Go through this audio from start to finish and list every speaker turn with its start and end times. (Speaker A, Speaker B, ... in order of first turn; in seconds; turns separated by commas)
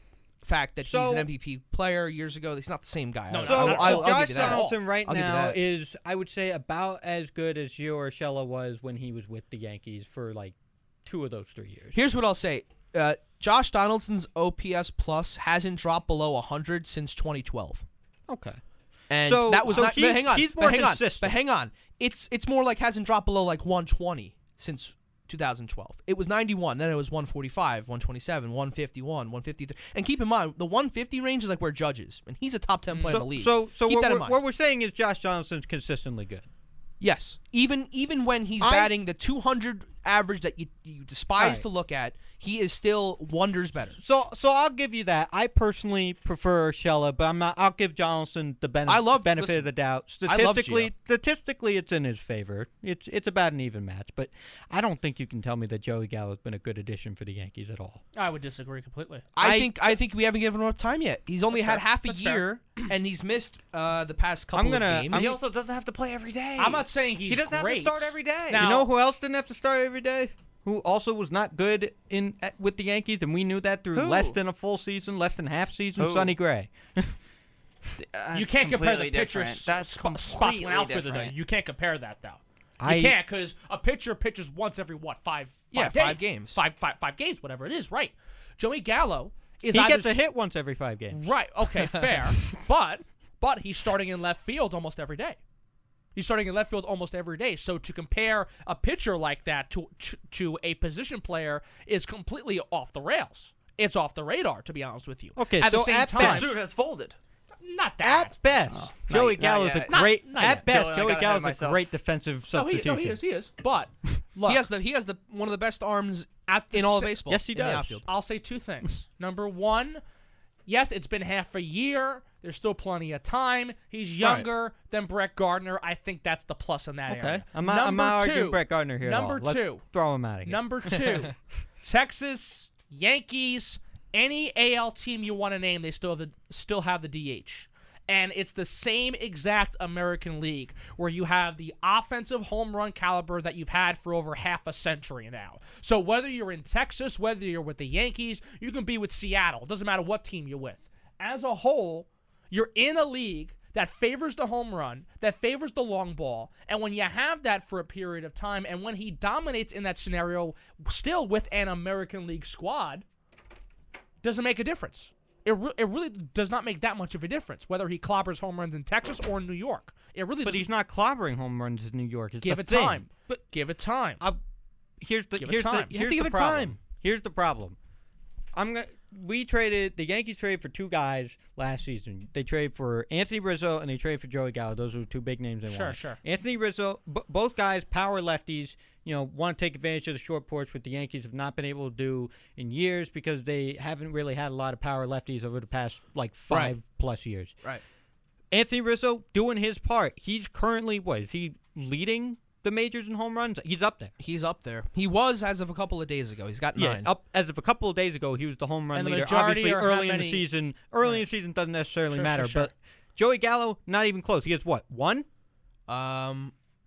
Speaker A: 0.4-5.6, Speaker B: 0.8-1.3, Speaker C: 3.3-4.8, Speaker B: 3.4-10.5, Speaker B: 11.1-11.9, Speaker A: 11.9-17.8, Speaker B: 18.3-18.6, Speaker A: 19.1-34.4, Speaker B: 19.1-21.4, Speaker C: 32.9-33.2, Speaker B: 33.0-36.4, Speaker A: 37.0-44.0, Speaker B: 38.6-38.9, Speaker B: 41.4-41.6, Speaker B: 44.0-58.0, Speaker A: 48.9-49.7, Speaker A: 50.2-50.9, Speaker C: 58.1-59.2, Speaker A: 59.4-65.3, Speaker B: 59.4-60.0, Speaker C: 61.5-62.4, Speaker B: 64.5-65.4, Speaker D: 65.1-68.7, Speaker C: 66.6-68.9, Speaker B: 68.5-77.2, Speaker D: 73.9-74.4, Speaker D: 76.0-76.3, Speaker D: 78.0-81.3, Speaker C: 78.3-90.2, Speaker B: 82.8-83.2, Speaker A: 85.7-86.6, Speaker B: 89.7-91.3, Speaker C: 91.1-95.4, Speaker C: 96.1-106.5, Speaker B: 105.3-106.5, Speaker D: 106.1-107.2, Speaker C: 107.6-108.5, Speaker B: 108.0-113.2, Speaker D: 108.7-111.8, Speaker C: 109.9-110.7, Speaker C: 112.5-114.6, Speaker A: 114.5-118.0, Speaker C: 116.5-117.2, Speaker B: 117.3-118.0, Speaker C: 118.0-120.0, Speaker C: 120.7-129.8, Speaker A: 124.2-124.5, Speaker B: 127.1-131.2, Speaker C: 130.4-163.0, Speaker C: 164.2-170.6, Speaker B: 170.4-173.0, Speaker C: 172.4-174.2, Speaker B: 175.0-177.8, Speaker C: 175.4-175.9, Speaker A: 175.9-176.8, Speaker B: 178.5-197.5, Speaker C: 185.7-186.2, Speaker A: 196.5-196.7, Speaker B: 198.5-204.1, Speaker A: 204.2-207.1, Speaker B: 206.7-215.3, Speaker C: 208.9-210.5, Speaker C: 212.1-212.7, Speaker A: 215.9-216.5